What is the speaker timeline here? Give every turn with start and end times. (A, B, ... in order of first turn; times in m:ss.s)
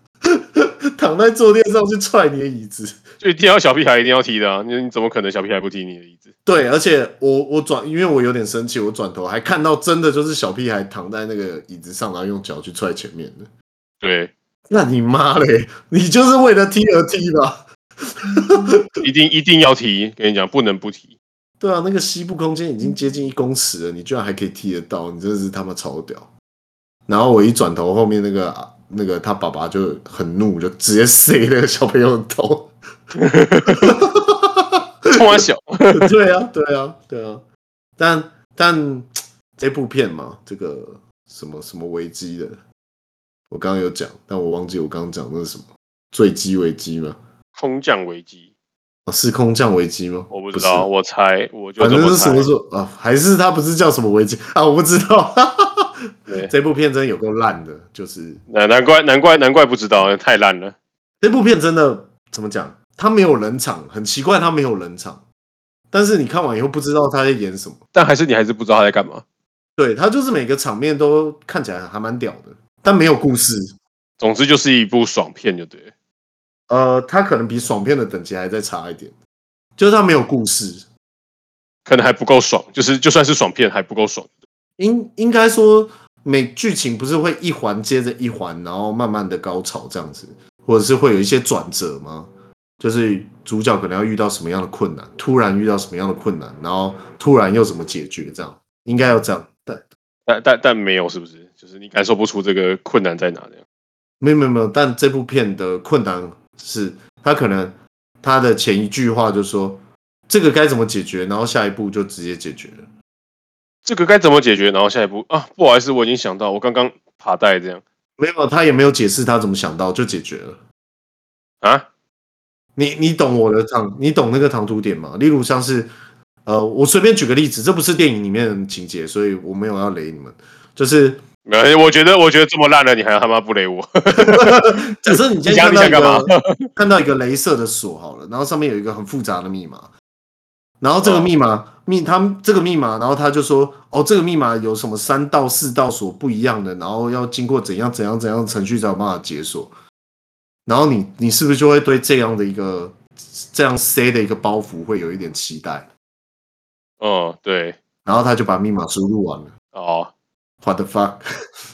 0:00.3-0:03.0 A
0:03.2-0:06.3 B
0:06.4-0:13.5 A
0:14.0-0:14.3 B
0:14.7-0:18.8 A
0:19.0-0:21.1 B
0:21.6-0:26.3 A
0:27.1-0:32.7 A
0:33.2-0:34.0 B
0:33.7-0:34.8 A
0:35.1-0:36.1 B
0:35.9-0:37.4 A
0:38.0-0:42.6 A
0:43.5-0:47.2 A
0:47.5-0:48.5 B
0:49.0-0:50.9 A
0:50.3-0:52.5 B
0:51.8-0:58.4 A
0:58.5-1:00.7 B
1:01.2-1:05.2 A
1:05.9-1:07.8 A
1:07.9-1:09.2 B
1:09.8-1:13.8 A
1:14.2-1:15.9 B
1:16.7-1:19.1 A
1:19.8-1:20.9 A
1:21.8-1:24.3 B
1:24.8-1:39.8 A
1:40.3-1:43.6 B
1:44.2-1:52.9 A
1:53.8-1:57.8 B
1:58.2-2:00.6 A
2:02.8-2:05.9 A
2:06.4-2:11.2 A
2:11.4-2:16.7 B
2:14.2-2:19.9 A
2:20.8-2:29.7 A
2:21.0-2:21.3 B
2:30.6-2:35.9 A
2:37.0-2:37.8 B
2:38.0-2:39.5 A
2:39.7-2:40.1 B
2:40.6-2:41.2 A